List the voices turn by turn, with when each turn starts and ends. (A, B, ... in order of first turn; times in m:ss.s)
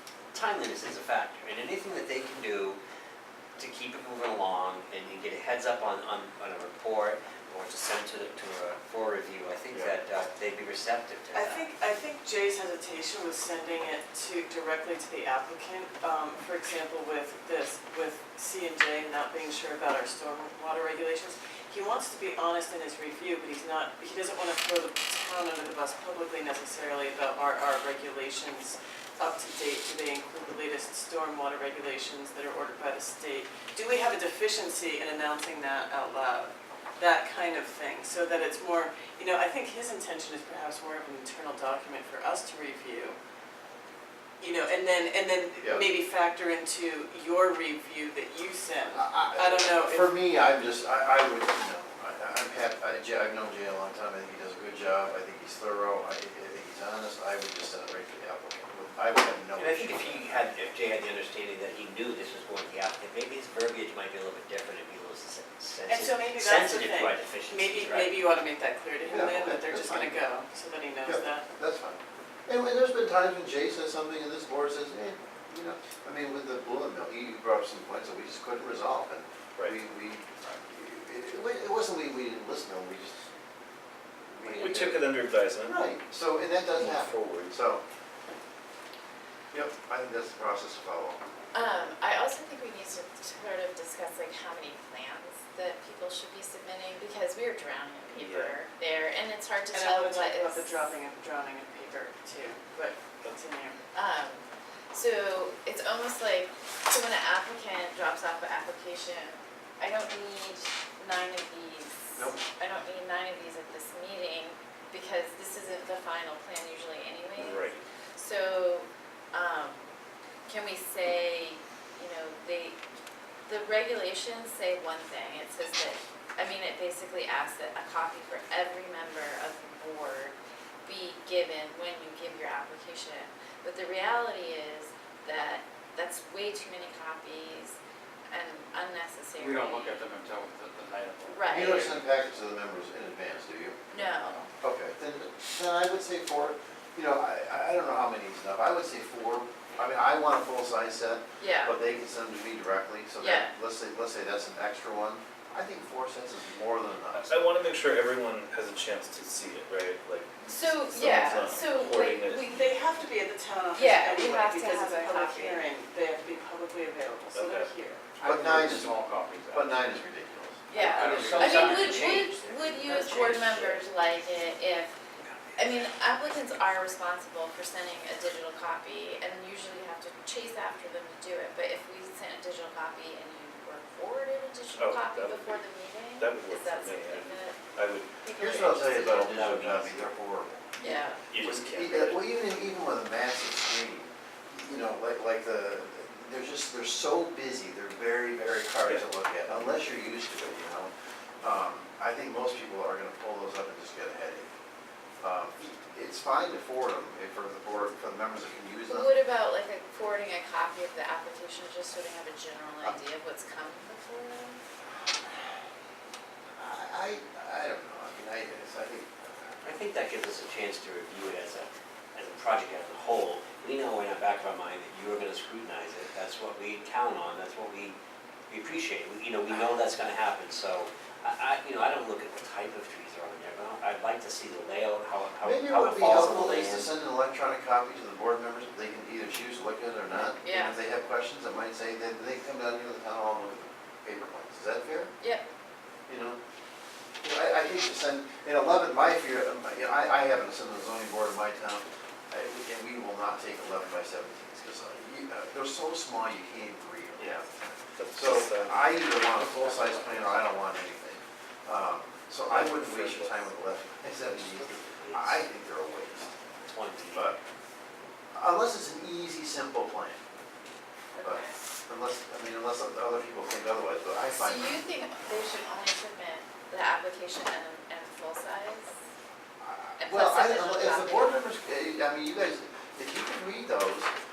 0:00.3-0:02.8 A
0:03.6-0:11.7 A
0:11.3-0:43.2 B
0:44.4-0:50.1 B
0:48.9-1:00.4 C
0:59.6-1:08.2 A
1:05.9-1:11.4 B
1:09.1-1:10.2 C
1:11.0-1:23.2 C
1:24.3-1:27.8 C
1:24.6-1:25.8 D
1:26.8-1:27.6 D
1:29.5-1:31.2 C
1:31.5-1:40.6 E
1:38.1-1:38.6 D
1:39.7-1:43.8 B
1:43.9-1:59.8 E
1:57.4-1:57.8 D
2:00.4-2:02.8 E
2:03.4-2:17.8 E
2:18.3-2:20.0 E
2:19.4-2:21.4 F
2:21.3-2:22.0 E
2:21.5-2:23.8 C
2:23.9-2:24.5 E
2:24.6-2:37.4 C
2:31.4-2:31.8 E
2:33.2-2:33.5 E
2:37.1-2:42.7 D
2:40.5-2:42.6 E
2:42.3-2:48.1 B
2:43.8-2:45.7 E
2:47.3-2:47.7 D
2:48.2-2:49.8 F
2:48.2-2:50.7 C
2:50.7-2:55.0 E
2:50.8-2:53.8 A
2:50.8-2:52.2 F
2:55.2-2:55.9 A
2:55.6-3:09.3 E
3:04.7-3:08.2 D
3:08.4-3:20.9 C
3:09.0-3:10.1 A
3:09.3-3:09.6 D
3:10.8-3:11.2 E
3:11.2-3:12.2 D
3:18.8-3:19.7 D
3:21.4-3:24.5 C
3:25.2-3:29.2 C
3:28.9-3:34.6 E
3:36.6-3:39.1 C
3:39.6-3:48.0 A
3:48.5-3:56.9 A
3:55.4-4:05.1 C
4:00.4-4:00.8 E
4:06.1-4:06.4 C
4:07.2-4:17.6 C
4:18.0-4:20.7 D
4:18.2-4:26.3 C
4:22.5-4:23.5 D
4:25.0-4:25.4 A
4:26.6-4:27.3 A
4:27.1-4:27.4 C
4:28.3-4:30.2 C
4:31.1-4:31.6 E
4:31.2-4:34.8 C
4:34.3-4:38.9 E
4:39.6-4:44.1 C
4:40.0-4:41.4 E